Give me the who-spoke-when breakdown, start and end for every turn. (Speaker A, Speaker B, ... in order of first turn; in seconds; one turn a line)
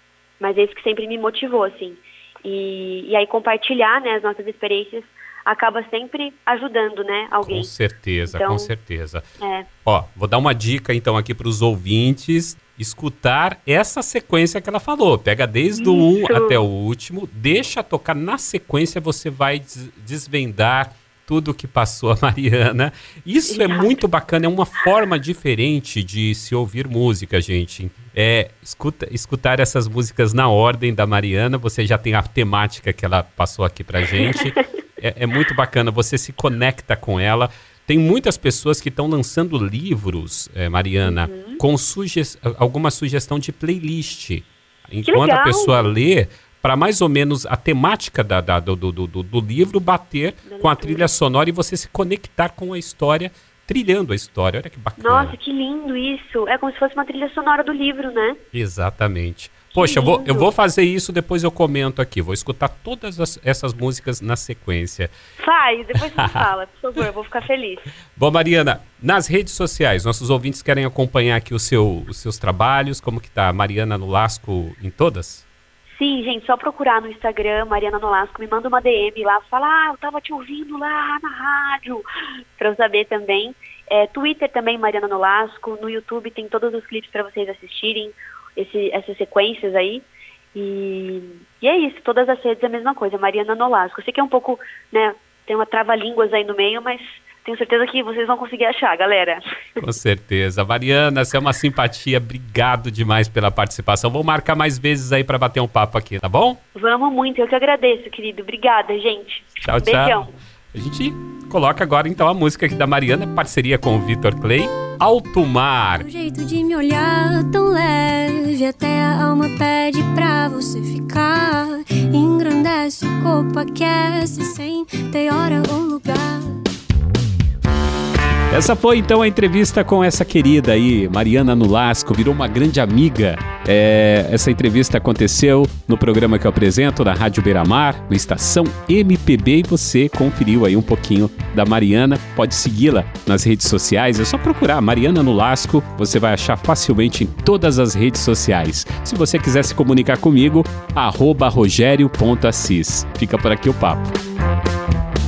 Speaker A: 0.4-7.7
Speaker B: 7.5-9.2
Speaker A: 8.3-8.7
Speaker A: 9.4-9.7
Speaker B: 9.8-55.4
Speaker A: 15.7-16.6
Speaker A: 23.5-24.0
Speaker A: 41.0-41.6
Speaker A: 45.1-45.9
Speaker A: 50.5-51.1
Speaker A: 55.0-58.4
Speaker B: 58.5-65.1
Speaker A: 59.7-60.5
Speaker A: 65.4-67.9
Speaker B: 68.2-75.5
Speaker A: 76.0-82.0
Speaker A: 82.6-99.4
Speaker B: 99.8-106.6
Speaker A: 106.8-110.3
Speaker B: 109.6-116.1
Speaker C: 116.0-126.7
Speaker B: 128.5-154.2